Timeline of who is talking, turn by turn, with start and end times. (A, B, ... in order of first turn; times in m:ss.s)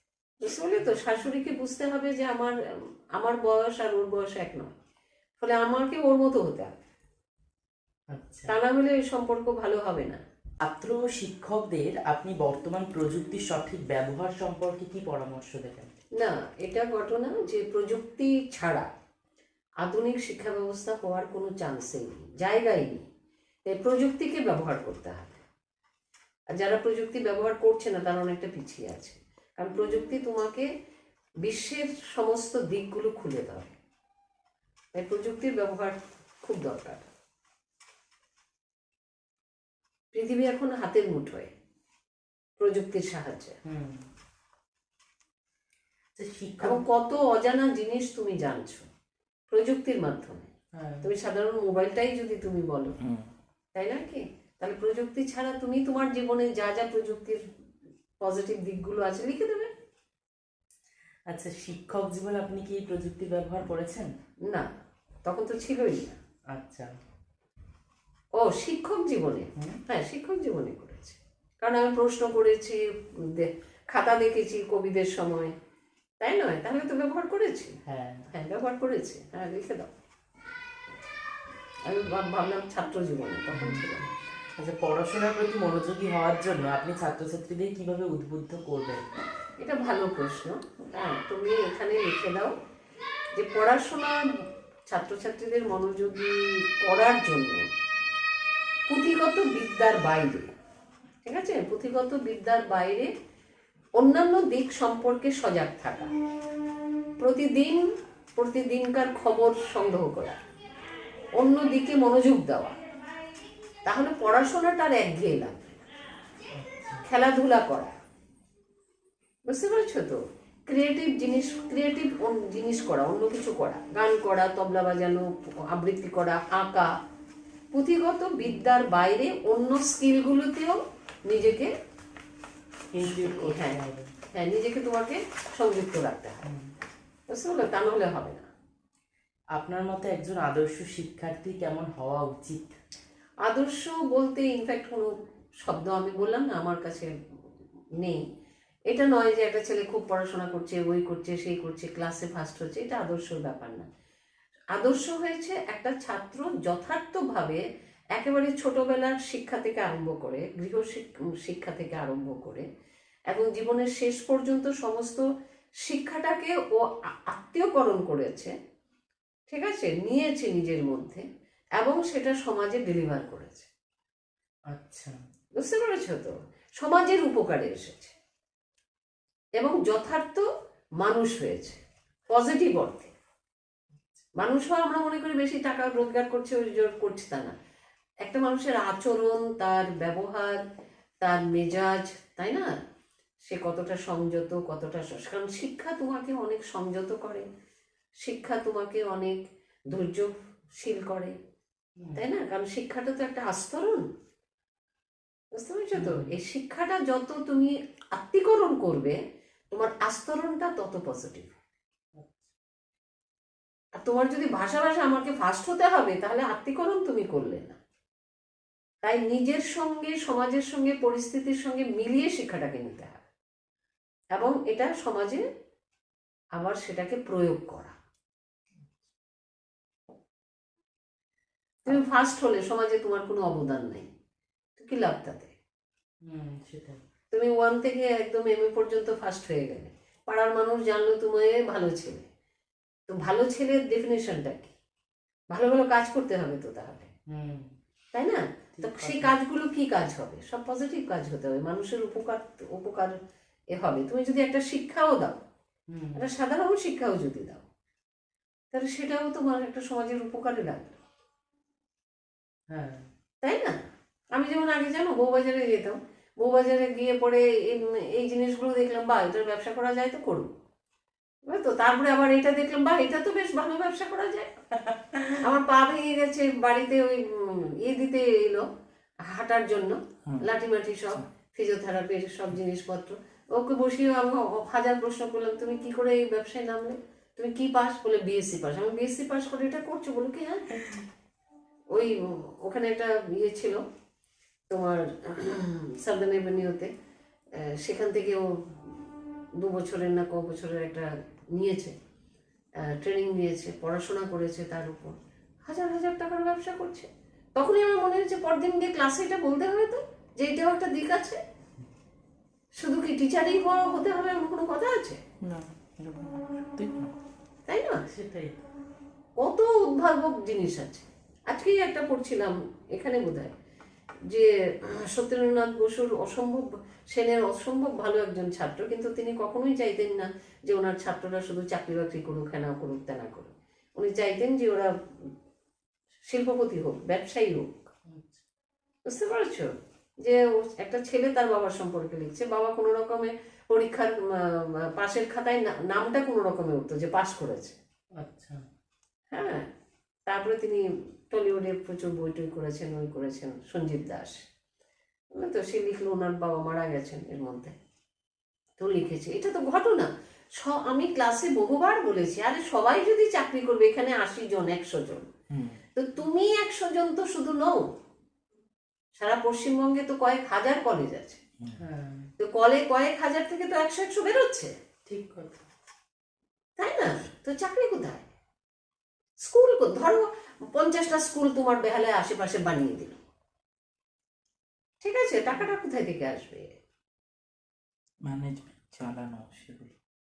0:00.4-0:02.6 A
0:03.1-0:04.7 A
0:05.4-0:06.7 A
0:08.1-0:08.5 B
0:08.5-0:10.2 A
0:10.6-0:15.9 B
0:16.2-0:18.9 A
0:19.8-0:23.0 A
0:23.6-0:25.4 A
0:26.5-0:30.7 A
0:31.4-0:33.8 A
0:34.9-0:37.1 A
0:40.1-0:41.5 A
0:42.6-0:43.6 A
0:43.6-0:44.0 B
0:46.2-0:46.8 B
0:46.6-0:48.9 A
0:49.5-0:50.5 A
0:50.8-0:51.1 B
0:51.0-0:52.9 A
0:53.0-0:53.3 C
0:53.8-0:57.4 A
0:58.2-0:59.7 A
1:01.3-1:04.1 B
1:05.2-1:06.2 A
1:06.5-1:06.9 B
1:08.4-1:15.5 A
1:16.2-1:17.8 A
1:17.8-1:18.3 B
1:18.3-1:19.9 A
1:21.8-1:24.1 A
1:23.5-1:29.0 B
1:29.6-1:32.5 A
1:33.3-1:37.6 A
1:38.9-1:40.5 A
1:41.2-1:43.1 A
1:44.0-1:46.1 A
1:47.2-1:50.4 A
1:51.4-1:52.8 A
1:53.8-1:55.8 A
1:56.5-1:57.0 B
1:57.0-1:58.0 A
1:59.5-2:06.9 A
2:07.7-2:11.7 A
2:12.9-2:14.1 B
2:13.0-2:13.8 A
2:14.3-2:16.4 A
2:16.4-2:16.7 B
2:17.3-2:18.5 A
2:19.6-2:22.8 B
2:23.4-2:27.2 A
2:28.0-2:28.2 A
2:28.9-2:33.9 A
2:34.7-2:37.6 A
2:38.2-2:42.7 A
2:43.3-2:45.2 A
2:45.8-2:48.5 A
2:49.5-2:51.2 A
2:51.8-2:53.7 A
2:54.7-2:55.2 B
2:55.6-2:58.2 A
2:59.6-3:00.5 A
3:01.0-3:03.1 A
3:04.4-3:07.6 A
3:08.2-3:10.6 A
3:11.2-3:12.8 A
3:13.4-3:17.5 A
3:18.2-3:21.4 A
3:22.0-3:22.2 B
3:22.1-3:24.0 A
3:25.5-3:29.2 A
3:25.9-3:26.4 B
3:29.7-3:31.5 A
3:32.2-3:32.5 B
3:34.0-3:37.8 A
3:39.0-3:43.2 A
3:44.3-3:45.4 A
3:46.6-3:48.0 A
3:51.8-3:54.1 A
3:54.8-3:55.5 A
3:56.2-3:57.0 B
3:57.3-4:02.2 A
4:03.1-4:04.8 A
4:05.5-4:07.1 A
4:07.3-4:07.7 B
4:08.1-4:13.2 A
4:08.8-4:09.3 B
4:13.7-4:15.4 A
4:15.9-4:16.3 B
4:16.2-4:17.6 A
4:18.7-4:21.0 A
4:22.7-4:23.1 B
4:23.4-4:23.8 A
4:24.3-4:30.5 A
4:31.5-4:34.5 A
4:34.8-4:35.4 B
4:35.4-4:38.7 A
4:39.2-4:50.7 A
4:51.9-4:53.8 A
4:54.7-4:56.9 A
4:57.5-4:58.9 A
4:59.6-5:02.0 A
5:02.8-5:11.4 A
5:12.8-5:15.2 A
5:15.4-5:17.1 C
5:17.7-5:18.0 A
5:18.0-5:18.6 B
5:19.4-5:23.5 A
5:24.2-5:35.3 A
5:36.2-5:37.9 A
5:38.0-5:38.4 B
5:39.1-5:47.8 A
5:48.2-5:48.6 B
5:49.3-5:49.7 A
5:50.3-5:54.4 A
5:55.3-5:57.8 A
5:58.8-6:05.3 A
6:05.5-6:05.8 C
6:06.0-6:07.9 A
6:09.2-6:11.4 A
6:11.8-6:12.3 B
6:12.4-6:14.7 A
6:15.1-6:15.6 B
6:16.8-6:18.3 A
6:19.4-6:23.2 A
6:25.0-6:26.8 A
6:28.2-6:29.9 C